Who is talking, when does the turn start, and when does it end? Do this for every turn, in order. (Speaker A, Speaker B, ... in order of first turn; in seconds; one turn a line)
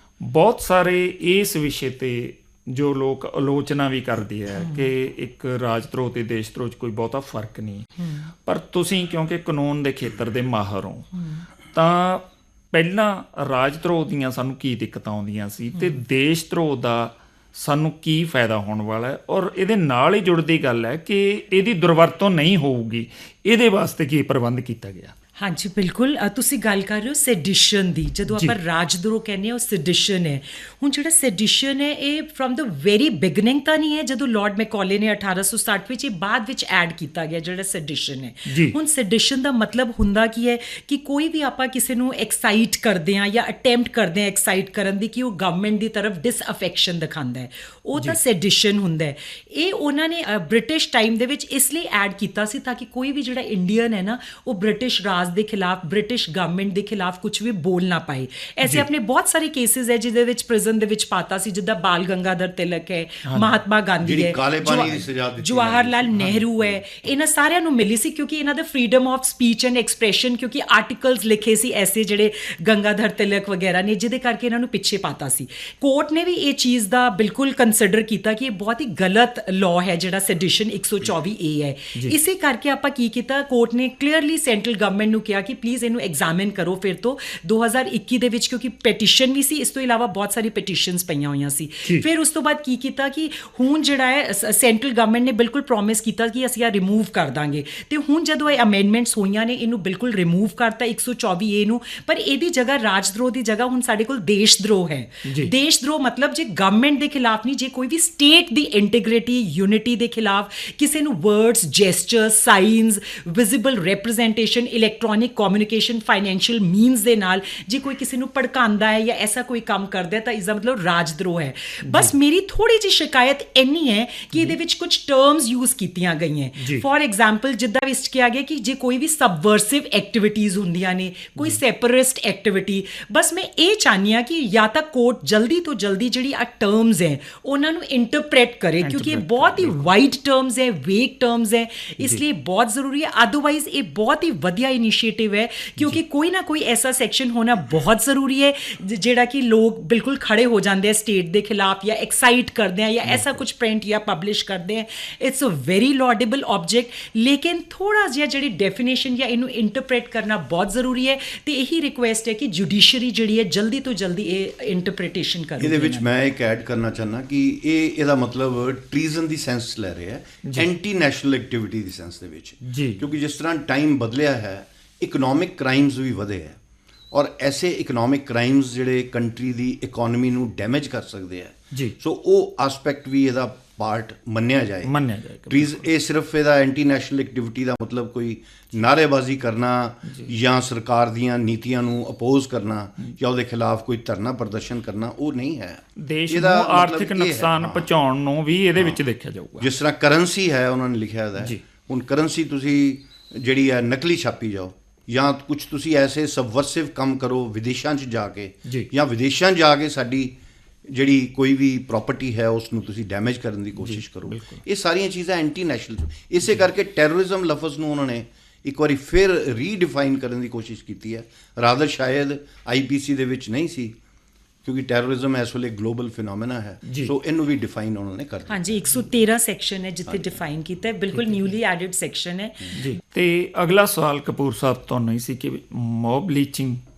Speaker A: 0.2-11.1
Speaker B: 4.6-4.9
Speaker B: 11.2-11.4
Speaker A: 11.7-25.1
Speaker B: 25.4-166.1
Speaker A: 28.3-28.6
Speaker A: 38.5-38.8
Speaker A: 63.3-63.6
Speaker C: 64.0-66.8
Speaker A: 105.2-105.5
Speaker A: 121.8-122.1
Speaker A: 126.6-126.8
Speaker A: 138.8-139.9
Speaker A: 153.1-153.4
Speaker C: 165.6-176.6
Speaker A: 172.6-173.1
Speaker C: 177.1-184.9
Speaker A: 184.8-185.9
Speaker C: 185.5-197.9
Speaker A: 190.1-190.3
Speaker A: 196.0-199.7
Speaker C: 199.6-210.3
Speaker A: 208.7-208.9
Speaker C: 210.9-223.9
Speaker A: 213.8-214.6
Speaker C: 224.6-228.8
Speaker A: 226.8-227.1
Speaker B: 228.5-232.7
Speaker C: 230.1-230.4
Speaker A: 231.1-231.4
Speaker A: 232.7-236.8